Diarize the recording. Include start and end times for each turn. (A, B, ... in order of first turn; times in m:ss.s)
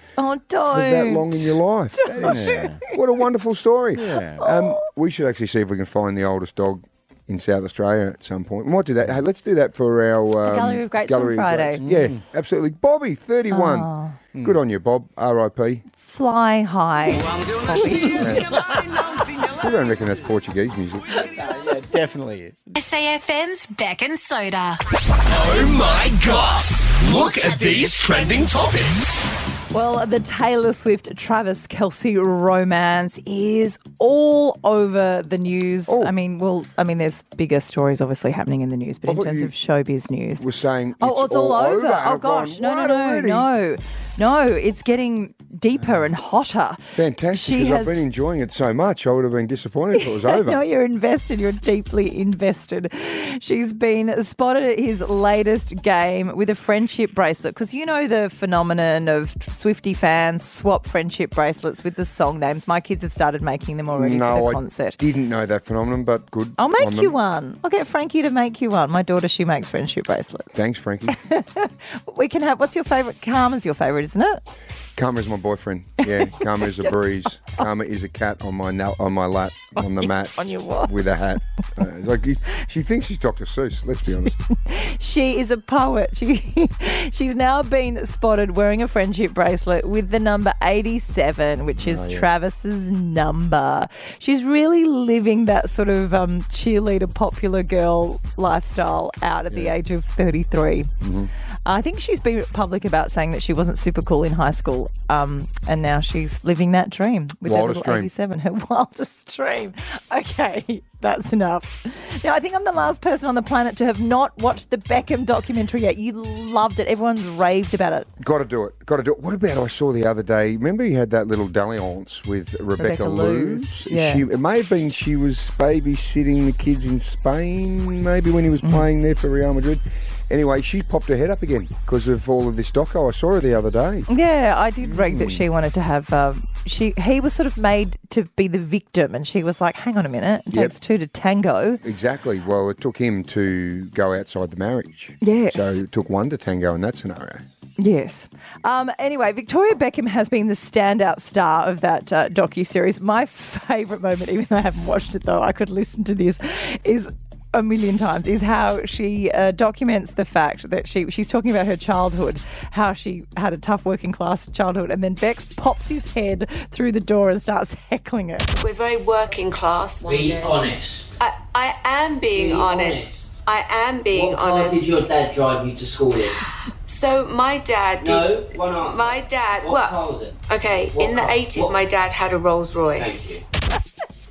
0:00.2-0:02.8 A
0:00.7-0:15.8 B
0:02.2-0:02.8 C
0:04.0-0:04.5 C
0:04.4-0:04.8 A
0:10.4-0:11.8 A
0:11.8-0:12.2 C
0:13.5-0:14.2 A
0:16.0-0:18.4 A
0:17.1-0:19.8 D
0:18.2-0:18.6 B
0:19.4-0:21.1 B
0:21.2-0:22.7 C
0:22.7-0:24.8 E
0:25.3-0:29.2 D
0:29.7-0:40.4 A
0:35.9-0:36.1 B
0:39.0-0:39.5 B
0:40.4-0:43.5 B
0:41.0-0:48.0 A
0:46.9-0:50.6 B
0:49.9-1:05.0 A
1:03.9-1:07.2 B
1:06.6-1:10.6 A
1:10.5-1:11.2 B
1:11.1-1:14.4 A
1:15.0-1:24.4 B
1:16.3-1:16.9 A
1:19.8-1:21.1 A
1:24.5-1:40.9 A
1:31.8-1:32.3 B
1:41.0-1:41.3 B
1:41.7-1:58.1 A
1:47.4-1:48.1 B
1:58.2-2:14.1 B
2:02.8-2:04.2 A
2:14.1-2:21.8 A
2:14.8-2:15.5 B
2:21.8-2:27.4 B
2:25.2-2:25.8 A
2:27.8-2:48.5 A
2:48.6-2:50.6 F
2:50.0-2:51.2 G
2:51.2-2:54.9 F
2:52.3-2:53.4 G
2:54.1-2:56.4 G
2:56.9-3:03.4 F
2:58.0-3:01.8 G
3:03.0-3:03.4 G